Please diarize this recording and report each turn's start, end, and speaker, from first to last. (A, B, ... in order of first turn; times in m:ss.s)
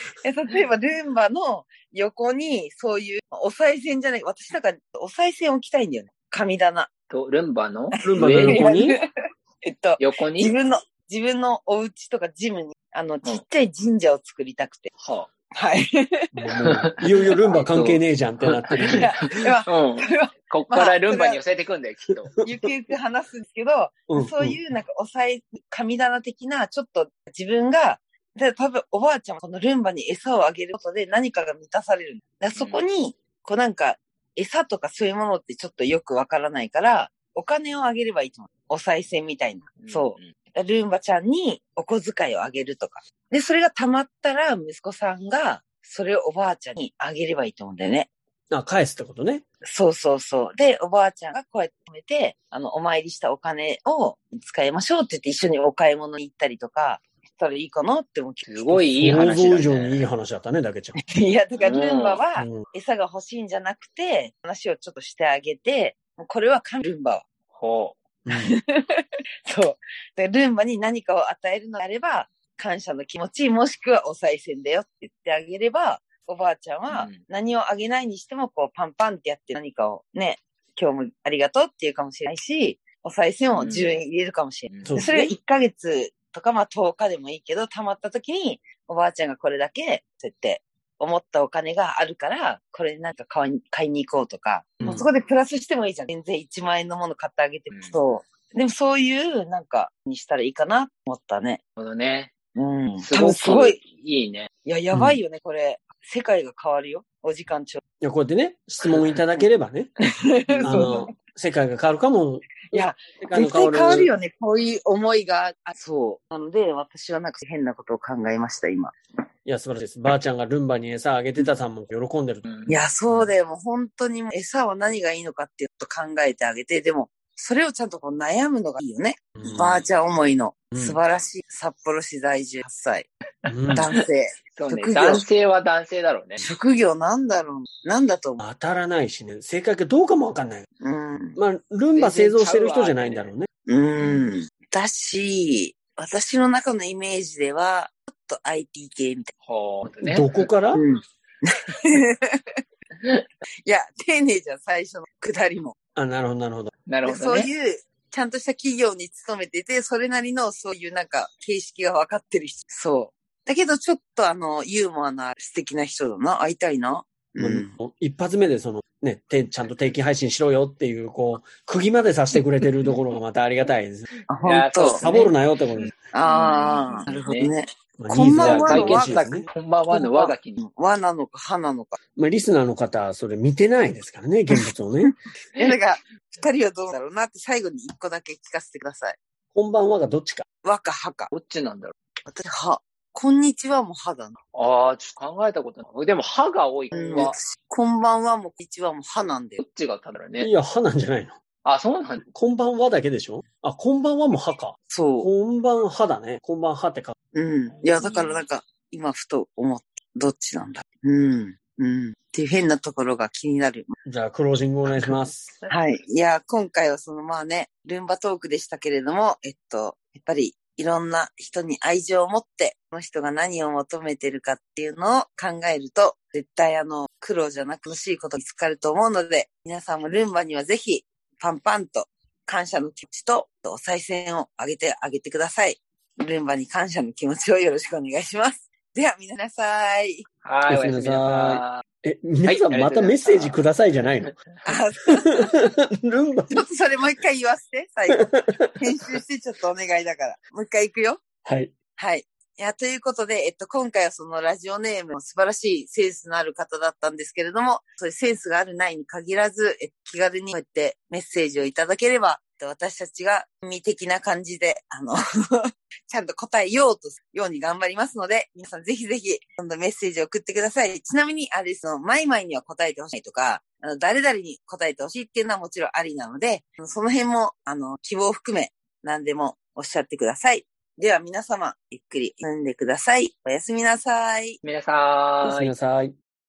0:00.2-0:06.9 A
0:07.1-0:08.6 B
0:07.9-0:09.0 A
0:08.0-0:09.0 C
0:09.6-0:14.9 A
0:10.0-0:10.5 B
0:15.0-0:15.3 B
0:15.5-0:16.2 A
0:16.3-0:19.1 C
0:16.6-0:22.3 B
0:18.9-0:21.4 A
0:22.4-0:48.1 A
0:24.1-0:24.6 C
0:32.6-0:32.8 B
0:39.8-0:40.3 B
0:48.5-0:49.4 C
0:49.6-0:59.6 A
0:58.4-1:00.0 B
0:59.0-1:01.0 C
1:01.0-1:07.2 A
1:01.6-1:02.2 B
1:02.4-1:02.6 C
1:07.5-1:08.0 B
1:08.2-1:08.5 C
1:08.3-1:41.6 A
1:16.9-1:17.2 B
1:23.5-1:23.9 B
1:24.7-1:25.0 B
1:24.8-1:25.3 C
1:34.8-1:35.0 C
1:37.7-1:38.0 B
1:41.8-1:42.3 B
1:42.6-1:43.8 A
1:43.0-1:44.5 B
1:44.6-1:47.8 A
1:44.9-1:45.2 C
1:48.0-1:49.9 C
1:50.2-1:51.1 A
1:50.5-1:51.0 B
1:50.6-1:54.1 C
1:52.7-1:58.9 A
1:59.4-2:02.4 C
2:02.4-2:02.8 B
2:02.7-2:13.1 A
2:09.4-2:09.8 C
2:10.7-2:11.0 C
2:13.4-2:13.9 C
2:13.5-2:13.9 B
2:13.7-2:15.2 A
2:14.6-2:16.4 B
2:16.4-2:18.4 A
2:18.4-2:20.7 C
2:20.8-2:21.4 A
2:21.4-2:23.5 C
2:21.9-2:23.3 B
2:23.6-2:29.3 A
2:24.0-2:24.2 B
2:29.4-2:30.5 B
2:30.0-2:30.8 C
2:30.7-2:32.4 A
2:33.6-2:35.8 A
2:36.0-2:36.7 C
2:36.9-2:37.5 B
2:37.0-2:47.7 A
2:47.4-2:54.1 C
2:54.3-2:55.0 A
2:54.4-2:57.5 B
2:54.8-2:55.9 C
2:56.1-3:02.0 A
2:58.0-2:59.5 C
2:58.4-3:00.6 B
3:02.2-3:05.1 C
3:04.5-3:09.2 A
3:09.5-3:10.4 C
3:10.6-3:11.3 A
3:11.3-3:11.9 B
3:12.2-3:14.4 A
3:14.5-3:17.4 B
3:16.9-3:19.6 A
3:19.6-3:20.5 B
3:20.4-3:21.4 C
3:21.6-3:22.2 B
3:22.3-3:27.1 C
3:24.9-3:25.3 A
3:27.3-3:33.9 A
3:27.8-3:28.4 B
3:34.0-3:35.5 C
3:34.8-3:35.7 B
3:35.7-4:00.2 A
4:00.4-4:01.8 B
4:00.7-4:04.4 C
4:02.4-4:03.6 B
4:04.6-4:05.5 A
4:05.1-4:06.6 C
4:06.5-4:11.2 A
4:08.1-4:08.7 C
4:11.4-4:11.7 C
4:12.0-4:44.6 A
4:44.6-4:45.7 B
4:45.4-4:46.2 C